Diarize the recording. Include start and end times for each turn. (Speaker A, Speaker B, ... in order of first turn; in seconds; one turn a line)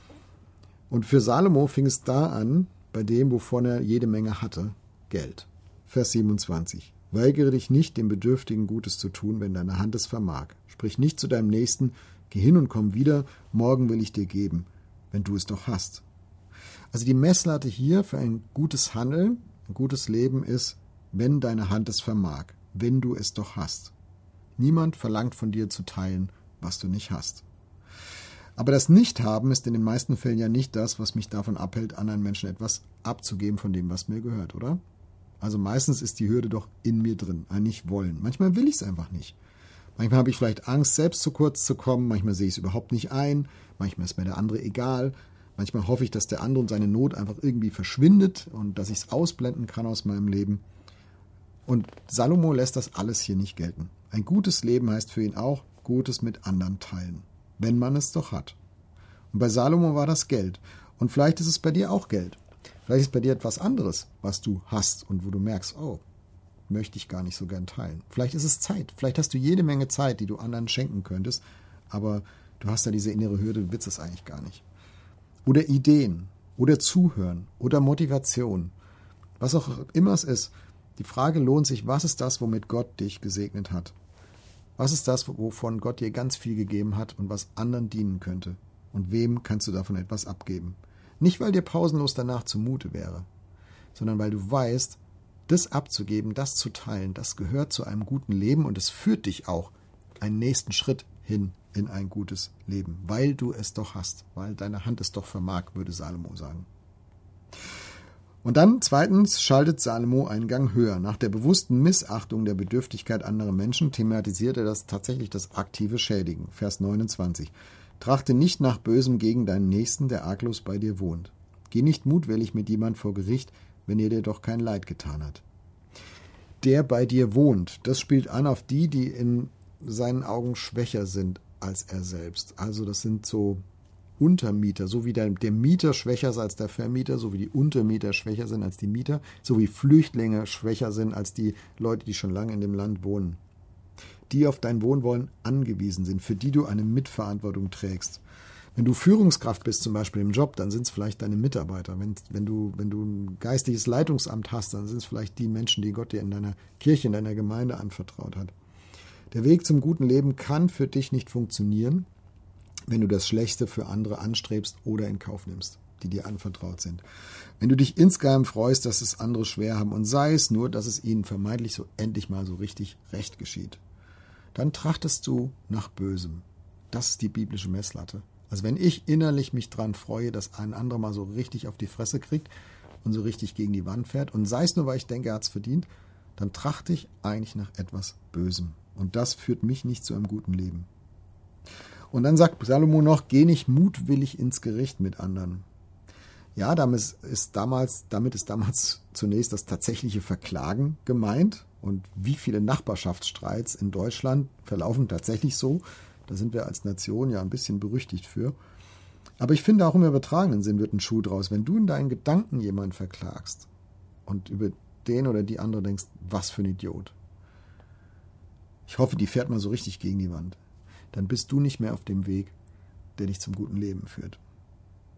Speaker A: 0.9-16.0
Speaker A: 16.9-23.9
Speaker A: 24.6-27.4
Speaker A: 28.6-34.8
Speaker A: 35.4-39.4
Speaker A: 40.0-50.6
Speaker A: 51.6-58.6
Speaker A: 59.3-66.0
Speaker A: 66.7-74.6
Speaker A: 75.4-78.7
Speaker A: 79.4-83.9
Speaker A: 84.8-93.3
Speaker A: 93.9-106.7
Speaker A: 108.4-125.4
Speaker A: 126.6-133.6
Speaker A: 134.2-143.4
Speaker A: 144.3-148.2
Speaker A: 148.8-158.5
Speaker A: 159.3-162.1
Speaker A: 162.9-167.0
Speaker A: 167.6-173.8
Speaker A: 174.5-182.5
Speaker A: 183.0-190.9
Speaker A: 192.1-195.7
Speaker A: 196.6-208.6
Speaker A: 209.4-213.7
Speaker A: 214.2-217.1
Speaker A: 218.9-220.6
Speaker A: 221.1-222.5
Speaker A: 223.2-224.4